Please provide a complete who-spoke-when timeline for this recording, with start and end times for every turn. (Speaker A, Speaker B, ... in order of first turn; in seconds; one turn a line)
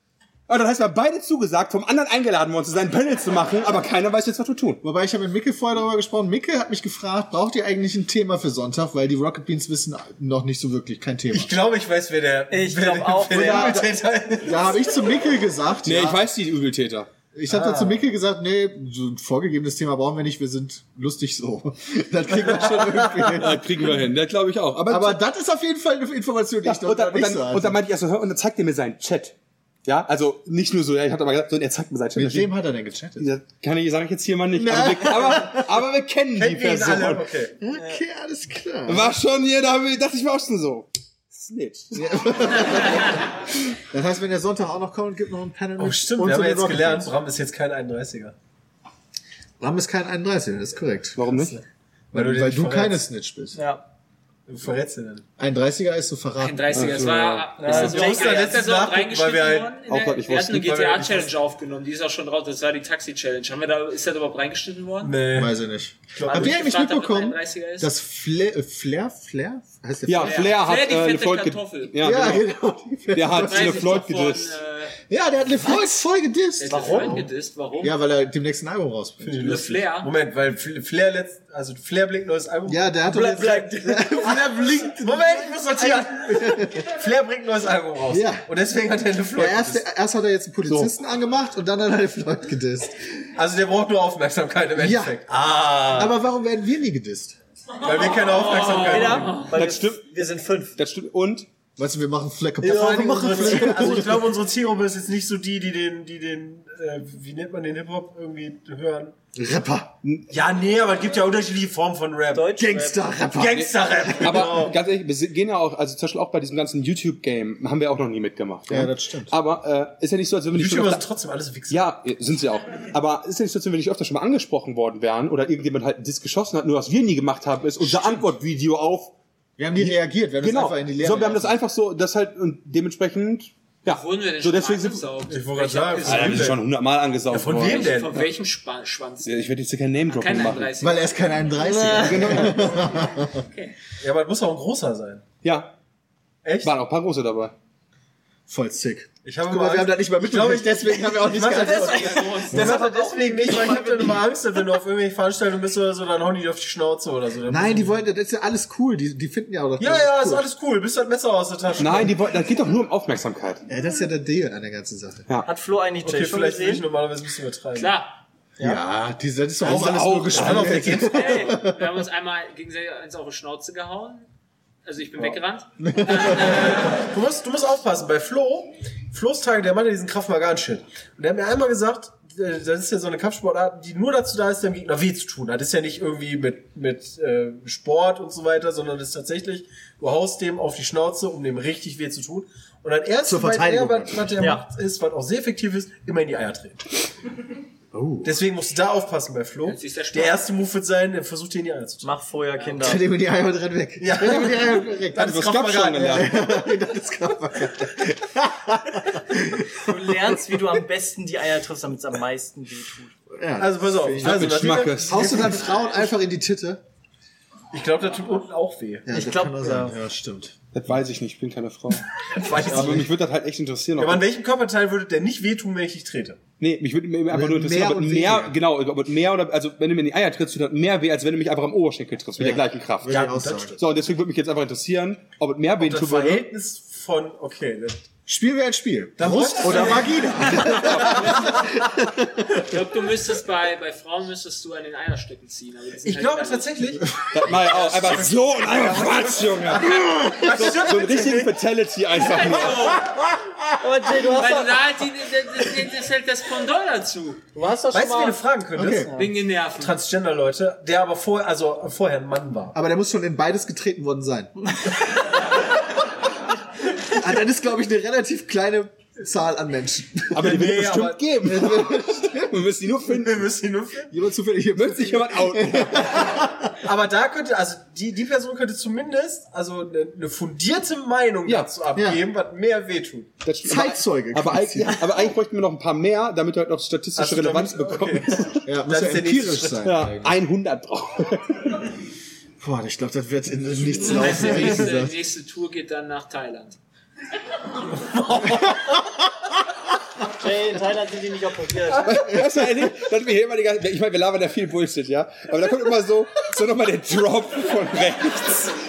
Speaker A: 0.5-4.8
Speaker B: 4.8-11.5
Speaker C: 11.3-14.8
Speaker D: 12.5-13.9
Speaker B: 13.3-16.3
Speaker A: 15.8-17.1
Speaker B: 17.3-23.6
Speaker C: 17.5-18.1
Speaker C: 22.3-23.5
Speaker A: 23.3-25.2
Speaker B: 24.9-27.8
Speaker A: 26.6-32.5
Speaker B: 32.1-33.3
Speaker A: 33.2-37.3
Speaker B: 34.5-35.8
Speaker C: 36.4-37.6
Speaker B: 37.6-39.1
Speaker D: 37.8-38.0
Speaker A: 38.9-42.2
Speaker B: 41.9-47.1
Speaker C: 45.8-48.4
Speaker B: 49.6-51.3
Speaker A: 51.2-51.6
Speaker C: 51.4-53.0
Speaker B: 52.1-53.6
Speaker D: 53.5-53.8
Speaker C: 54.5-55.2
Speaker B: 55.4-57.1
Speaker E: 56.4-65.2
Speaker A: 56.7-57.5
Speaker D: 57.6-58.5
Speaker C: 57.6-59.8
Speaker A: 59.9-60.6
Speaker C: 60.5-61.3
Speaker C: 65.0-65.5
Speaker B: 65.3-70.5
Speaker C: 66.1-66.6
Speaker E: 66.2-67.9
Speaker A: 70.1-72.5
Speaker E: 70.2-72.4
Speaker B: 72.0-74.0
Speaker A: 73.1-74.6
Speaker E: 73.4-75.0
Speaker B: 75.1-77.2
Speaker E: 76.6-78.0
Speaker D: 76.7-77.2
Speaker C: 76.7-77.2
Speaker B: 77.8-79.6
Speaker C: 79.2-89.8
Speaker E: 79.4-80.1
Speaker B: 82.7-86.9
Speaker B: 88.1-88.5
Speaker B: 89.3-93.0
Speaker A: 90.7-90.9
Speaker C: 93.4-96.2
Speaker B: 94.8-95.2
Speaker B: 95.9-97.4
Speaker C: 97.8-99.5
Speaker E: 98.0-99.5
Speaker D: 98.8-100.8
Speaker A: 99.5-100.1
Speaker A: 100.8-101.5
Speaker B: 101.8-104.2
Speaker D: 102.6-104.1
Speaker C: 102.6-109.2
Speaker B: 109.3-110.0
Speaker C: 110.3-112.6
Speaker D: 112.3-113.1
Speaker B: 112.6-114.7
Speaker C: 113.4-114.8
Speaker A: 113.4-121.0
Speaker B: 118.7-119.3
Speaker C: 120.5-122.0
Speaker A: 121.7-129.1
Speaker B: 127.8-128.2
Speaker B: 129.6-131.6
Speaker A: 129.8-135.1
Speaker E: 133.8-136.5
Speaker C: 135.3-136.6
Speaker A: 136.0-138.0
Speaker C: 137.3-138.3
Speaker E: 137.5-139.4
Speaker A: 139.2-140.8
Speaker E: 140.1-141.2
Speaker B: 140.8-143.4
Speaker D: 141.6-142.6
Speaker A: 142.0-142.7
Speaker E: 143.3-143.8
Speaker C: 144.0-145.2
Speaker A: 145.4-145.7
Speaker C: 146.4-146.8
Speaker A: 146.6-147.5
Speaker B: 148.5-152.8
Speaker C: 149.2-158.0
Speaker D: 151.5-154.1
Speaker B: 157.5-160.5
Speaker C: 159.8-162.2
Speaker A: 161.8-163.6
Speaker B: 163.7-165.3
Speaker D: 165.4-166.9
Speaker C: 166.0-167.9
Speaker E: 167.8-168.2
Speaker B: 168.6-171.8
Speaker C: 169.6-171.7
Speaker A: 169.6-171.1
Speaker E: 171.1-174.3
Speaker E: 174.8-177.0
Speaker B: 175.8-176.7
Speaker C: 176.4-196.8
Speaker B: 193.2-194.6
Speaker D: 194.4-194.7
Speaker B: 197.9-198.4
Speaker C: 198.2-202.1
Speaker E: 199.7-200.5
Speaker D: 202.0-203.1
Speaker B: 202.8-205.4
Speaker C: 204.0-206.3
Speaker A: 205.2-206.4
Speaker B: 206.0-210.6
Speaker D: 209.8-213.1
Speaker B: 213.3-216.8
Speaker C: 213.6-215.8
Speaker A: 214.2-215.4
Speaker C: 217.7-219.2
Speaker B: 219.1-220.6
Speaker D: 219.1-220.0
Speaker A: 220.7-222.0
Speaker C: 222.3-223.1
Speaker A: 222.6-224.2
Speaker C: 224.0-226.4
Speaker A: 226.6-236.5
Speaker B: 227.3-228.6
Speaker B: 232.4-233.8
Speaker C: 233.1-233.8
Speaker C: 235.8-238.0
Speaker B: 238.3-242.6
Speaker C: 239.2-241.5
Speaker A: 240.5-241.2
Speaker E: 242.5-246.9
Speaker C: 246.0-251.6
Speaker A: 247.3-253.0
Speaker E: 252.2-253.1
Speaker B: 252.9-253.7
Speaker D: 253.8-254.8
Speaker E: 254.2-257.4
Speaker D: 257.6-258.4
Speaker C: 257.9-259.2
Speaker B: 258.8-259.1
Speaker E: 259.2-260.0
Speaker C: 259.8-262.8
Speaker B: 262.7-264.5
Speaker B: 267.1-270.5
Speaker A: 270.3-273.5
Speaker C: 270.4-271.5
Speaker B: 271.4-272.7
Speaker C: 273.1-274.1
Speaker B: 274.1-276.8
Speaker A: 274.8-276.2
Speaker C: 276.8-283.3
Speaker A: 281.5-281.7
Speaker B: 281.9-282.2
Speaker A: 283.4-288.6
Speaker B: 283.6-285.1
Speaker C: 287.2-289.9
Speaker B: 288.6-290.4
Speaker A: 289.8-291.7
Speaker B: 292.6-295.2
Speaker E: 294.0-296.8
Speaker D: 298.2-298.7
Speaker D: 300.3-302.2
Speaker A: 302.1-308.8